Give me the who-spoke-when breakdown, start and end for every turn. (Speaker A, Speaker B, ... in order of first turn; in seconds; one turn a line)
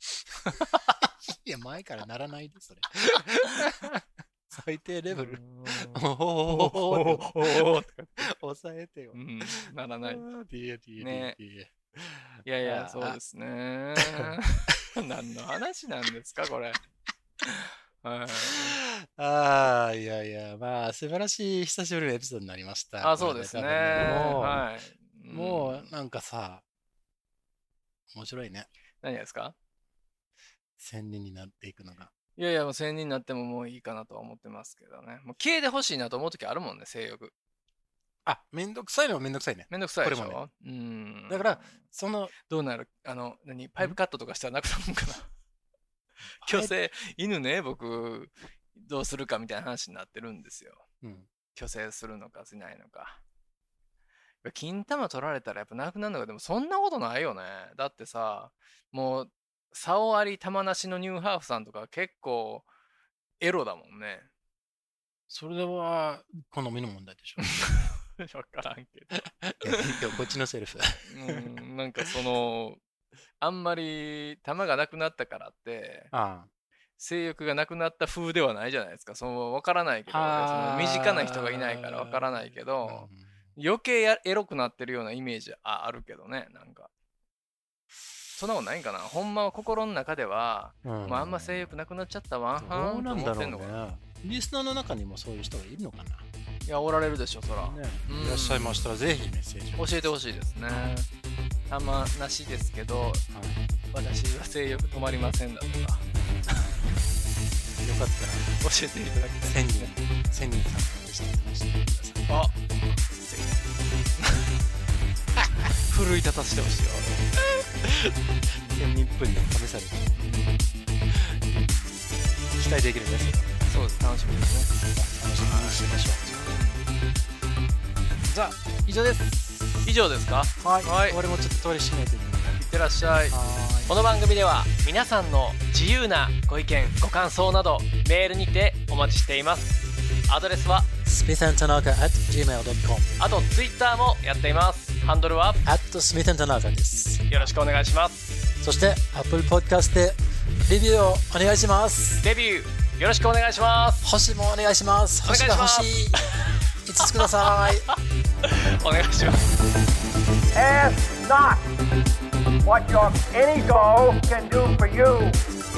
Speaker A: 0.4-1.0
Speaker B: 1.0-13.2
Speaker A: 5.1-8.3
Speaker A: 9.1-10.2
Speaker A: 11.0-11.3
Speaker A: 12.4-16.8
Speaker A: 17.5-18.8
Speaker B: 18.4-24.6
Speaker A: 23.0-25.9
Speaker B: 25.3-26.6
Speaker B: 28.1-28.7
Speaker A: 29.0-29.5
Speaker B: 30.8-32.1
Speaker A: 32.4-37.3
Speaker B: 38.2-40.4
Speaker A: 39.7-41.7
Speaker B: 41.3-42.3
Speaker A: 42.4-45.3
Speaker B: 46.4-46.8
Speaker A: 46.4-50.8
Speaker B: 51.0-51.3
Speaker A: 51.5-53.2
Speaker A: 54.4-62.6
Speaker A: 63.4-64.3
Speaker B: 65.3-67.5
Speaker A: 67.4-70.2
Speaker B: 69.6-71.5
Speaker A: 71.1-72.8
Speaker A: 73.4-76.1
Speaker B: 76.1-76.5
Speaker A: 77.0-86.9
Speaker B: 80.1-83.4
Speaker A: 88.3-93.8
Speaker B: 90.8-91.7
Speaker B: 92.6-96.3
Speaker A: 96.6-98.9
Speaker B: 97.6-100.0
Speaker A: 99.8-101.1
Speaker A: 101.7-103.2
Speaker B: 103.3-103.6
Speaker A: 103.9-106.7
Speaker B: 106.1-106.8
Speaker B: 107.8-108.5
Speaker A: 108.5-109.9
Speaker B: 109.4-112.9
Speaker A: 112.3-113.5
Speaker A: 114.2-114.5
Speaker A: 115.8-118.8
Speaker B: 118.5-120.1
Speaker A: 120.2-120.8
Speaker B: 121.1-121.9
Speaker B: 122.5-123.5
Speaker A: 123.7-124.7
Speaker B: 124.9-126.5
Speaker A: 125.4-126.9
Speaker B: 128.2-129.8
Speaker A: 129.8-131.2
Speaker B: 130.6-132.7
Speaker A: 132.6-139.8
Speaker B: 133.3-134.0
Speaker A: 140.3-140.9
Speaker B: 141.0-143.1
Speaker A: 143.2-145.6
Speaker B: 145.6-147.3
Speaker A: 147.3-148.5
Speaker B: 148.6-152.2
Speaker A: 152.2-154.1
Speaker B: 154.0-156.2
Speaker A: 155.2-159.4
Speaker B: 156.8-157.9
Speaker C: 160.5-161.7
Speaker C: 162.6-165.4